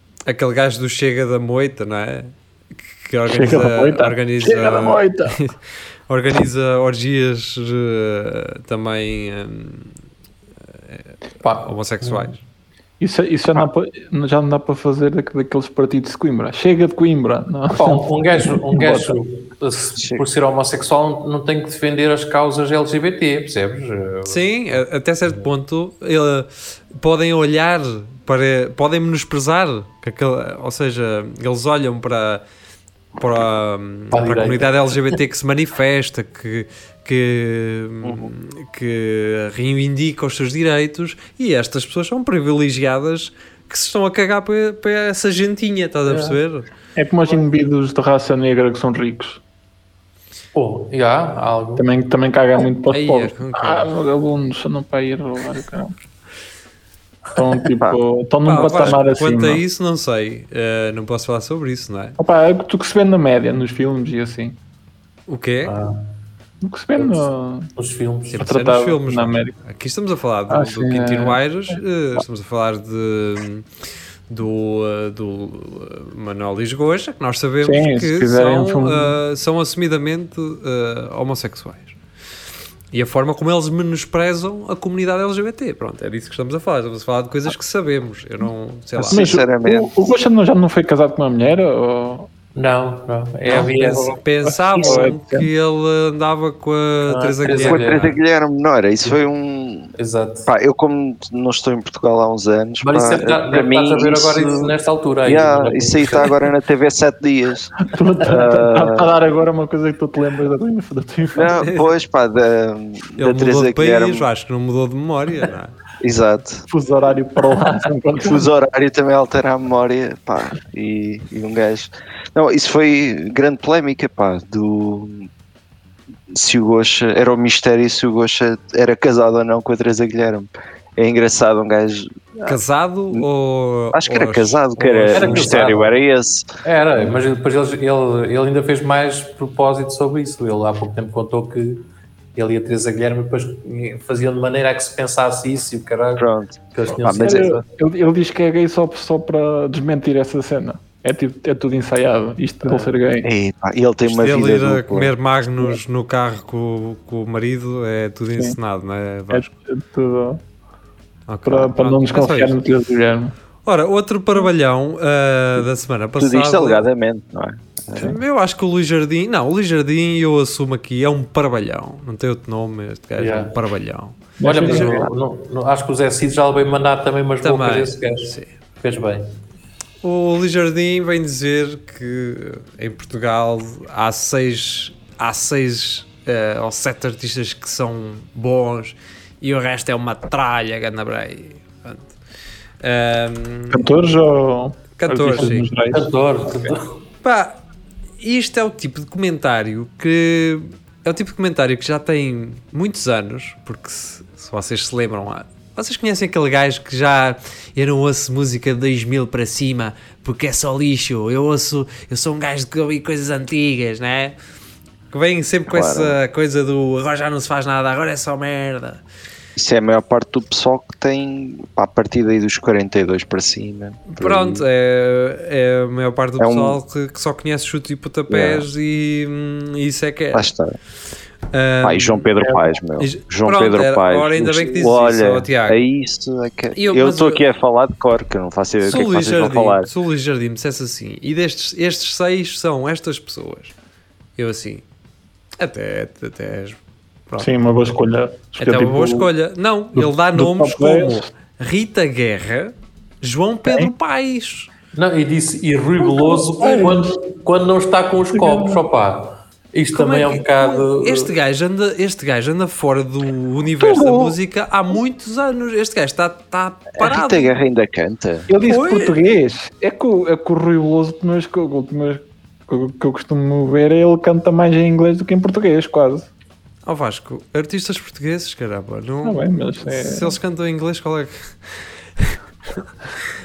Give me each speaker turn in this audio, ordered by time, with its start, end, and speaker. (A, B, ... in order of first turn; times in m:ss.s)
0:00.2-0:02.3 A
0:03.0-0:05.6 A
0:03.3-0:05.4 B
0:06.1-0:10.0 A
0:11.4-0:12.3 C
0:11.6-0:12.4 A
0:13.0-0:19.1 B
0:17.7-0:24.8 C
0:20.0-0:20.2 D
0:24.3-0:32.4 A
0:33.2-0:46.6 A
0:34.1-0:35.2 C
0:38.0-0:38.3 D
0:46.1-0:46.4 C
0:47.0-0:49.4 B
0:50.5-0:51.8 C
0:51.8-0:55.9 B
0:52.9-0:53.9 A
0:57.3-0:59.6 B
0:58.4-1:02.2 A
1:02.2-1:04.6 B
1:05.3-1:05.7 A
1:05.6-1:06.1 C
1:06.6-1:07.7 B
1:07.0-1:08.4 C
1:08.3-1:13.7 A
1:08.4-1:09.6 B
1:10.5-1:12.2 B
1:14.3-1:21.9 A
1:17.6-1:19.2 B
1:22.9-1:29.3 A
1:29.0-1:29.9 D
1:29.1-1:32.3 B
1:32.5-1:34.2 C
1:33.5-1:38.1 A
1:34.4-1:35.5 B
1:37.1-1:38.2 C
1:37.5-1:39.9 D
1:40.0-1:40.5 C
1:40.5-1:47.7 D
1:42.8-1:46.5 C
1:47.8-1:51.6 B
1:48.2-1:49.1 D
1:51.3-1:54.3 D
1:51.6-1:51.9 A
1:53.2-1:55.7 A
1:56.0-1:56.6 D
1:56.7-1:58.5 B
1:58.2-2:05.3 D
2:06.3-2:12.6 D
2:12.4-2:15.6 A
2:13.9-2:16.5 D
2:15.1-2:15.9 C
2:16.6-2:27.6 C
2:26.2-2:27.5 D
2:27.0-2:33.3 B
2:32.6-2:32.9 C
2:33.2-2:35.1 D
2:34.0-2:39.5 A
2:39.3-2:40.4 B
2:41.3-2:42.6 A
2:41.4-2:43.3 B
2:43.6-2:46.8 A
2:46.2-2:48.2 D
2:47.9-2:54.2 A
2:53.2-2:53.6 C
2:54.4-2:54.9 B
2:54.4-2:59.4 C
2:54.6-2:55.1 D
2:57.4-2:58.5 A
3:00.0-3:12.1 A
3:12.8-3:13.9 A
3:13.7-3:16.7 B
3:15.0-3:15.7 A
3:15.9-3:17.0 C
3:17.2-3:17.6 A
3:18.2-3:34.4 A
3:35.1-3:39.0 A
3:35.7-3:36.2 D
3:39.6-3:44.6 D
3:44.1-3:50.5 A
3:46.4-3:46.8 D
3:48.3-3:48.6 D
3:50.3-3:50.7 D
3:51.5-3:55.8 A
3:51.8-3:59.9 D
3:56.8-3:57.4 A
3:58.8-4:03.7 A
4:04.4-4:04.8 A
4:05.6-4:07.5 A
4:07.4-4:09.3 B
4:08.6-4:14.7 A
4:09.9-4:11.3 B
4:13.7-4:13.9 B
4:14.9-4:21.3 C
4:16.0-4:17.1 B
4:18.3-4:18.8 B
4:19.9-4:27.6 A
4:23.8-4:24.3 B
4:27.0-4:28.5 D
4:28.5-4:36.3 B
4:28.6-4:29.2 A
4:36.8-4:41.3 A
4:39.2-4:40.4 B
4:42.2-4:42.8 A